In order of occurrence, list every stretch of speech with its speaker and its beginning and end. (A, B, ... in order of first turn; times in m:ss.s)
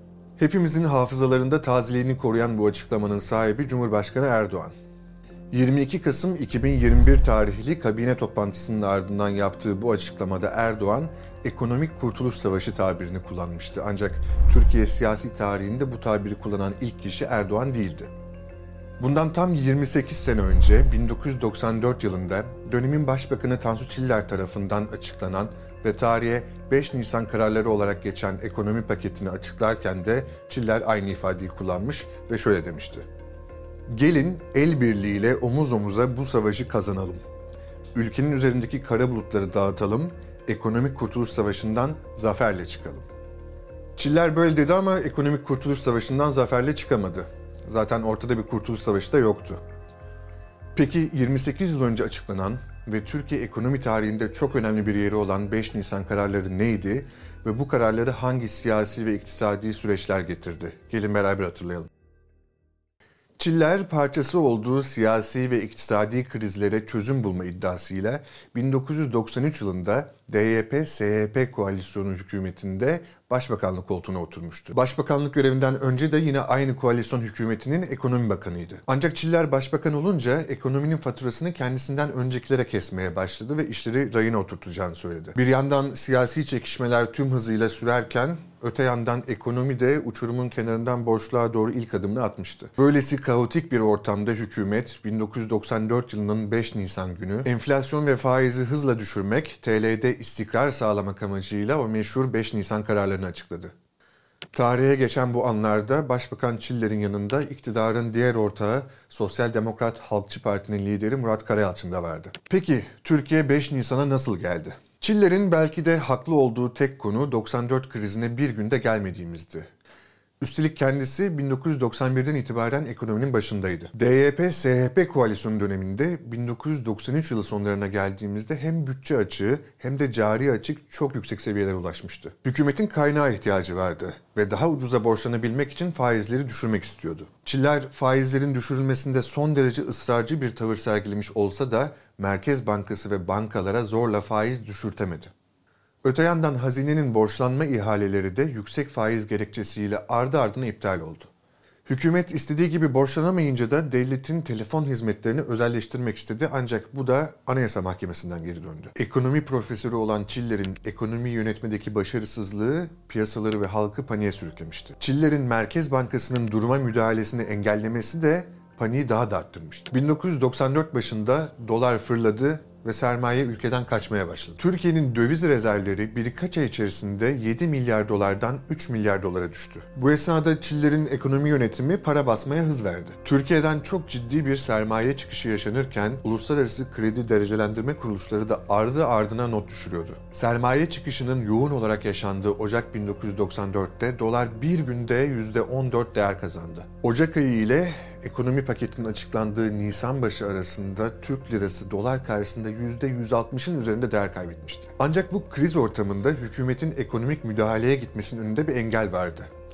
0:00.4-0:04.7 A
0:05.5-0:18.1 A
0:19.0-0:33.0 A
0:33.9-0:37.2 A
0:37.9-0:43.0 A
0:44.0-0:49.6 A
0:50.7-1:01.9 A
1:03.4-1:43.7 A
1:44.5-1:59.7 A
2:00.4-2:25.3 A
2:26.0-2:31.3 A
2:31.8-3:29.5 A